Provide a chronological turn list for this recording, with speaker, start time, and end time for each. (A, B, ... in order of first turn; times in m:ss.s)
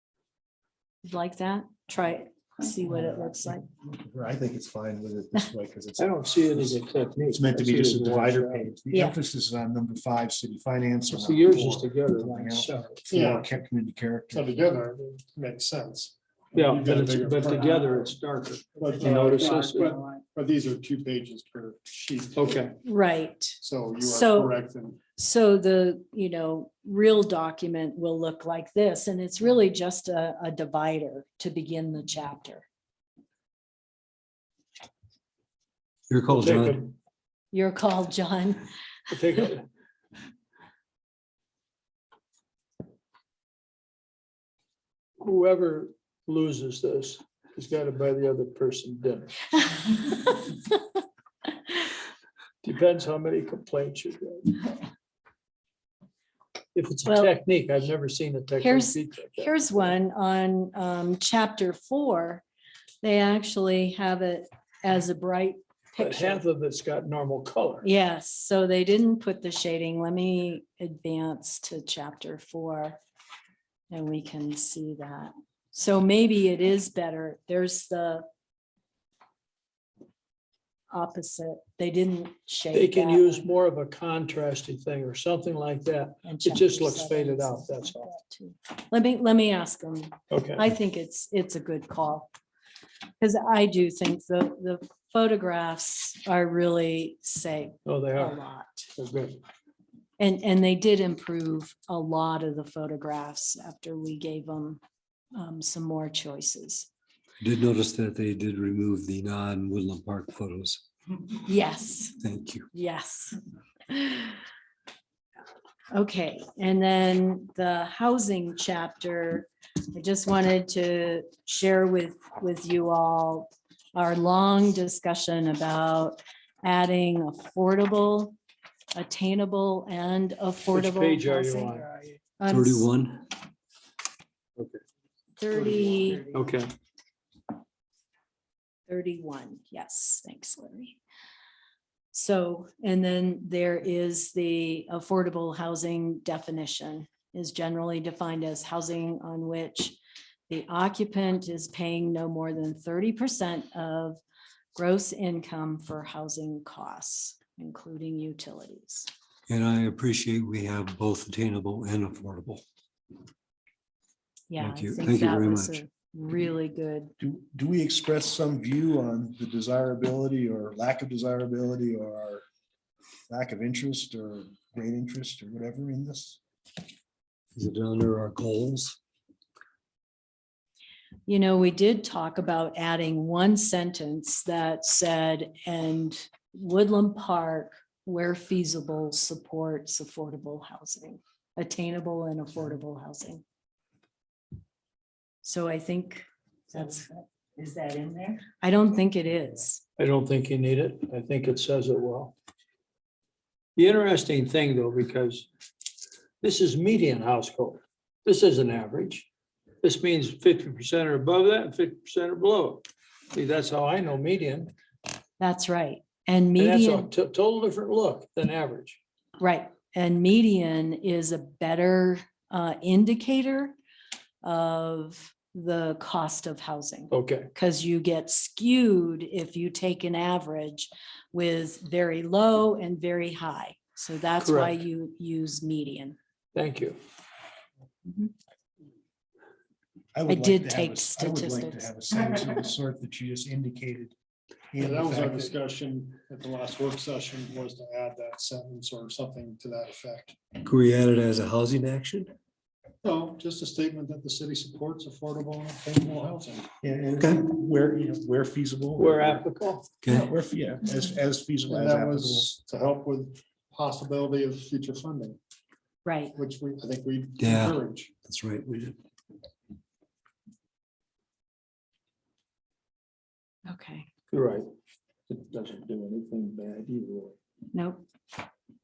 0:01.0-0:03.6 A
0:03.8-0:14.5 B
0:06.0-0:08.7 C
0:11.1-0:13.0 C
0:13.1-0:13.5 D
0:14.3-0:18.2 D
0:16.5-0:20.0 C
0:18.8-0:22.7 D
0:18.9-0:19.5 B
0:22.4-0:22.8 C
0:22.8-0:24.6 A
0:23.6-0:25.0 D
0:25.2-0:32.7 A
0:36.1-0:36.8 E
0:36.3-0:36.9 C
0:37.5-0:38.6 A
0:39.1-0:39.7 C
0:45.2-0:50.0 C
0:52.6-0:54.7 C
0:56.8-0:59.7 C
0:57.1-0:57.3 A
0:58.6-1:02.4 A
1:03.0-1:06.4 A
1:06.0-1:07.9 C
1:07.8-1:13.0 A
1:13.9-1:18.2 A
1:20.9-1:23.5 A
1:22.7-1:28.1 C
1:26.2-1:32.3 A
1:30.3-1:30.7 C
1:33.2-1:38.9 A
1:37.9-1:38.4 C
1:39.0-1:39.4 C
1:40.2-1:44.8 A
1:45.4-1:46.9 A
1:47.4-1:50.8 E
1:51.4-1:52.2 A
1:52.2-1:52.7 E
1:52.7-1:53.4 A
1:53.9-1:54.4 A
1:55.9-2:08.4 A
2:09.0-2:11.8 A
2:10.7-2:12.2 C
2:12.4-2:12.9 A
2:12.5-2:13.2 E
2:15.4-2:16.3 A
2:15.7-2:16.4 D
2:16.3-2:16.7 C
2:18.9-2:21.0 A
2:22.1-2:30.0 A
2:30.5-2:34.2 A
2:34.8-2:39.1 A
2:39.5-2:42.6 E
2:44.5-2:47.1 A
2:44.6-2:45.8 E
2:47.2-2:52.4 B
2:53.3-2:56.4 B
2:57.6-2:59.0 E
3:01.3-3:13.4 A
3:15.4-3:17.1 A
3:18.5-3:19.8 A
3:20.0-3:22.3 C
3:23.8-3:25.5 C
3:26.4-3:29.3 C
3:29.8-3:34.7 C
3:35.4-3:37.1 A
3:36.6-3:39.0 C
3:39.4-3:43.8 A
3:44.4-3:56.2 A
3:47.1-3:47.5 C
3:54.4-3:54.8 C
3:56.6-3:57.0 C
3:58.1-3:58.3 A
4:00.1-4:04.1 B
4:00.3-4:01.9 A
4:04.7-4:05.5 B
4:04.8-4:10.4 D
4:10.6-4:12.3 E
4:13.0-4:16.7 D
4:16.8-4:19.5 B
4:19.0-4:20.0 C
4:20.0-4:20.3 E
4:20.1-4:22.5 B
4:21.7-4:25.4 D
4:26.0-4:26.3 A
4:26.4-4:28.1 D
4:27.4-4:29.0 E
4:33.7-4:34.1 A
4:34.3-4:34.7 C
4:35.3-4:37.4 C
4:37.7-4:38.0 A